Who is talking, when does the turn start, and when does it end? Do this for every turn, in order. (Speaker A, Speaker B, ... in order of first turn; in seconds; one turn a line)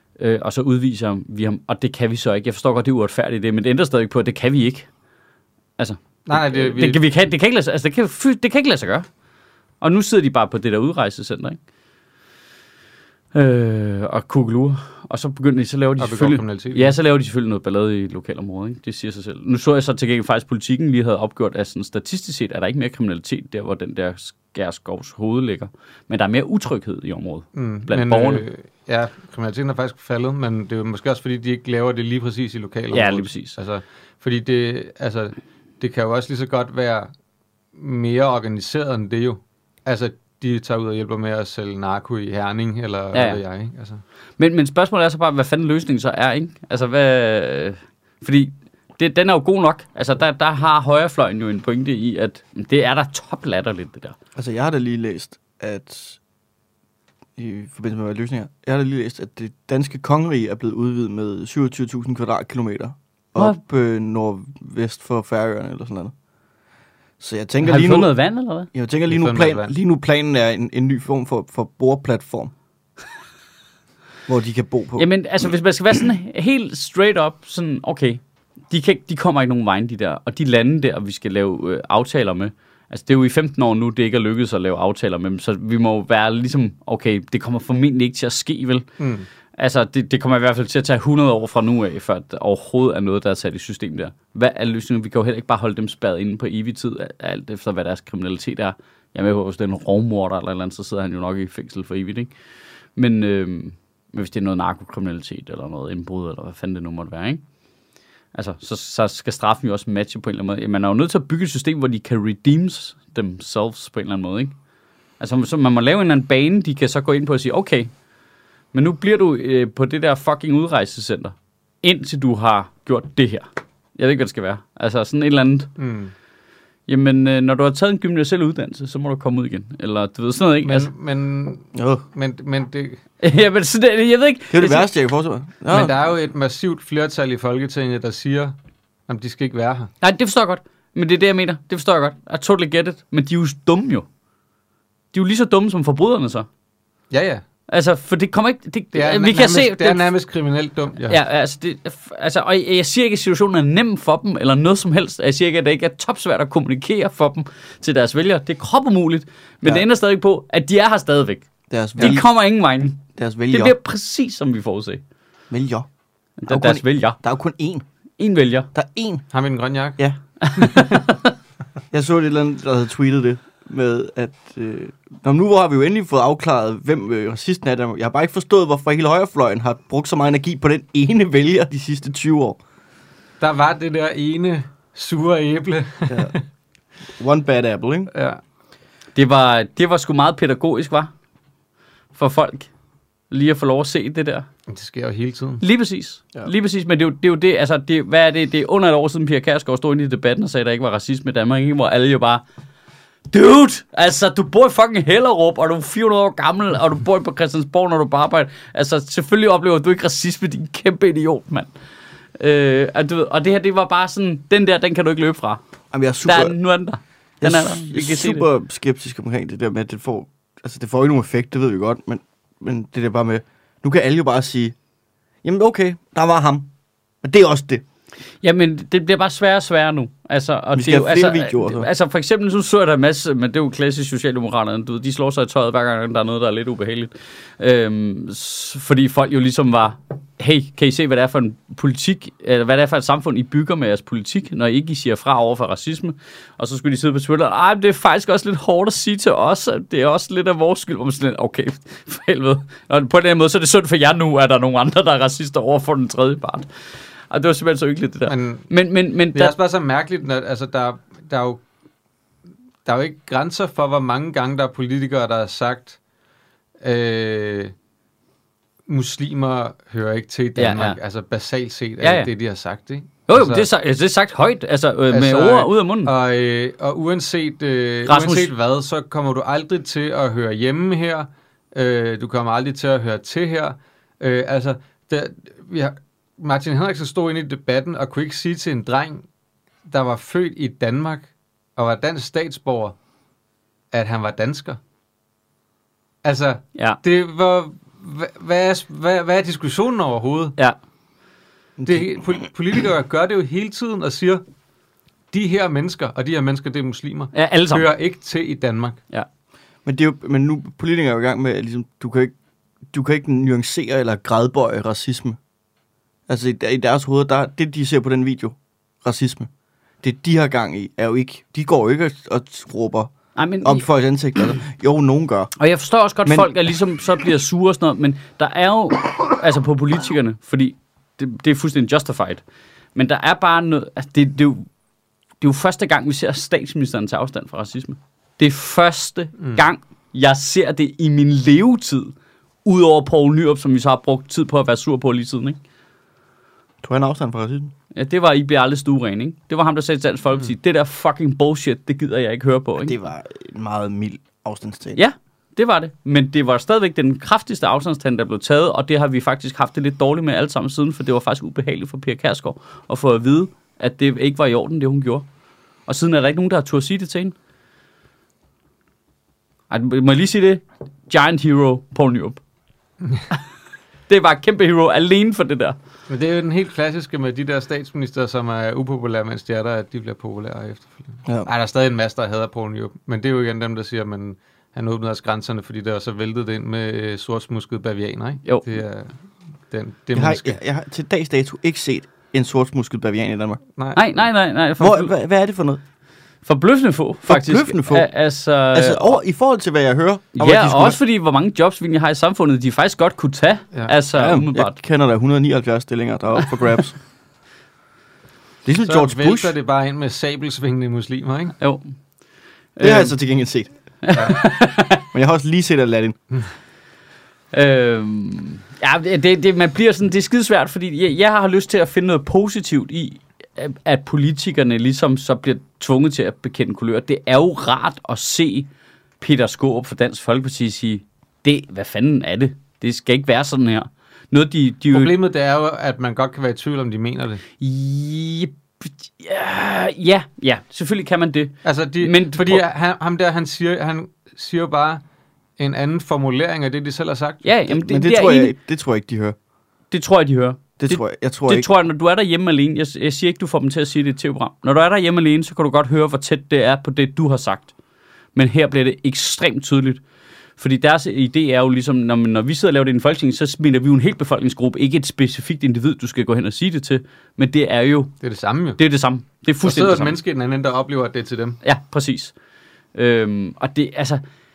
Speaker A: 0.2-4.9
Speaker A: 5.8-9.1
Speaker B: 6.3-7.0
Speaker A: 9.8-11.6
Speaker A: 13.3-28.5
Speaker B: 16.0-17.0
Speaker B: 27.6-37.1
Speaker A: 32.9-33.6
Speaker B: 37.8-44.0
Speaker A: 43.1-43.4
Speaker A: 44.4-54.2
Speaker C: 54.4-56.2
Speaker C: 57.4-66.1
Speaker C: 67.2-68.1
Speaker A: 67.6-68.7
Speaker C: 68.7-72.5
Speaker B: 69.1-69.8
Speaker C: 74.3-75.1
Speaker A: 75.0-88.9
Speaker B: 89.0-89.3
Speaker A: 89.6-102.3
Speaker A: 103.0-107.4
Speaker A: 108.3-114.5
Speaker A: 115.2-117.9
Speaker A: 118.7-125.7
Speaker B: 125.8-126.1
Speaker A: 126.9-130.9
Speaker B: 130.6-133.0
Speaker C: 131.8-132.0
Speaker A: 133.2-134.9
Speaker C: 134.5-135.9
Speaker B: 135.7-138.6
Speaker B: 139.1-139.9
Speaker A: 140.0-144.1
Speaker A: 145.1-146.5
Speaker B: 147.1-147.4
Speaker A: 147.7-150.1
Speaker B: 148.9-151.2
Speaker A: 151.1-165.0
Speaker C: 161.7-162.3
Speaker C: 163.2-163.8
Speaker C: 165.5-165.9
Speaker A: 166.4-167.2
Speaker C: 166.5-167.8
Speaker A: 168.2-168.7
Speaker C: 168.7-169.3
Speaker B: 169.3-170.0
Speaker A: 170.5-170.8
Speaker B: 170.6-171.0
Speaker C: 171.9-182.6
Speaker B: 183.4-186.4
Speaker C: 186.1-186.3
Speaker C: 187.2-188.1
Speaker B: 188.1-188.4
Speaker A: 189.2-191.1
Speaker A: 192.2-192.7
Speaker A: 193.3-194.5
Speaker B: 194.7-195.6
Speaker A: 195.6-202.4
Speaker A: 203.3-211.7
Speaker A: 212.4-215.6
Speaker C: 215.9-216.6
Speaker A: 216.2-218.4
Speaker C: 217.4-224.8
Speaker C: 225.4-226.7
Speaker C: 227.2-227.8
Speaker A: 228.4-256.7
Speaker C: 230.8-231.9
Speaker A: 257.3-259.6
Speaker B: 258.3-258.7
Speaker B: 259.3-261.6
Speaker B: 262.9-266.0
Speaker B: 266.8-267.7
Speaker B: 268.9-273.7
Speaker A: 270.6-271.0
Speaker A: 272.0-272.3
Speaker A: 273.3-276.1
Speaker B: 275.1-289.2
Speaker A: 278.1-278.5
Speaker B: 289.9-293.0
Speaker B: 293.9-294.8
Speaker B: 296.2-300.6
Speaker C: 301.8-302.1
Speaker B: 301.9-304.4
Speaker B: 305.3-309.0
Speaker A: 307.3-307.9
Speaker C: 309.9-312.3
Speaker C: 312.9-315.4
Speaker C: 316.3-319.5
Speaker C: 320.0-323.1
Speaker A: 323.4-323.9
Speaker C: 323.6-325.5
Speaker A: 325.6-332.4
Speaker C: 326.2-326.5
Speaker A: 332.9-334.7
Speaker A: 335.4-342.1
Speaker A: 342.6-345.6
Speaker C: 346.8-347.7
Speaker A: 347.9-352.9
Speaker C: 352.8-355.0
Speaker A: 355.0-365.3
Speaker A: 365.9-367.4
Speaker A: 369.7-372.4
Speaker A: 374.1-375.8
Speaker B: 376.1-389.1
Speaker B: 389.7-390.6
Speaker C: 390.1-393.6
Speaker A: 393.9-395.1
Speaker C: 394.8-395.8
Speaker A: 396.4-399.2
Speaker C: 397.3-398.1
Speaker C: 398.7-401.0
Speaker A: 400.4-404.8
Speaker C: 404.1-407.0
Speaker C: 408.6-409.5
Speaker B: 408.9-411.6
Speaker A: 411.6-411.9
Speaker A: 412.8-413.1
Speaker C: 412.8-413.7
Speaker A: 414.0-415.1
Speaker C: 415.1-416.2
Speaker A: 417.5-428.7
Speaker A: 429.2-435.1
Speaker B: 434.9-437.4
Speaker A: 437.6-442.6
Speaker B: 441.6-445.0
Speaker B: 445.6-447.5
Speaker A: 447.4-448.6
Speaker C: 447.7-449.4
Speaker A: 449.9-457.7
Speaker C: 450.8-451.7
Speaker A: 458.4-460.0
Speaker A: 460.6-468.1
Speaker B: 468.2-468.8
Speaker A: 468.8-470.2
Speaker B: 469.6-471.6
Speaker A: 471.6-472.3
Speaker A: 472.9-474.2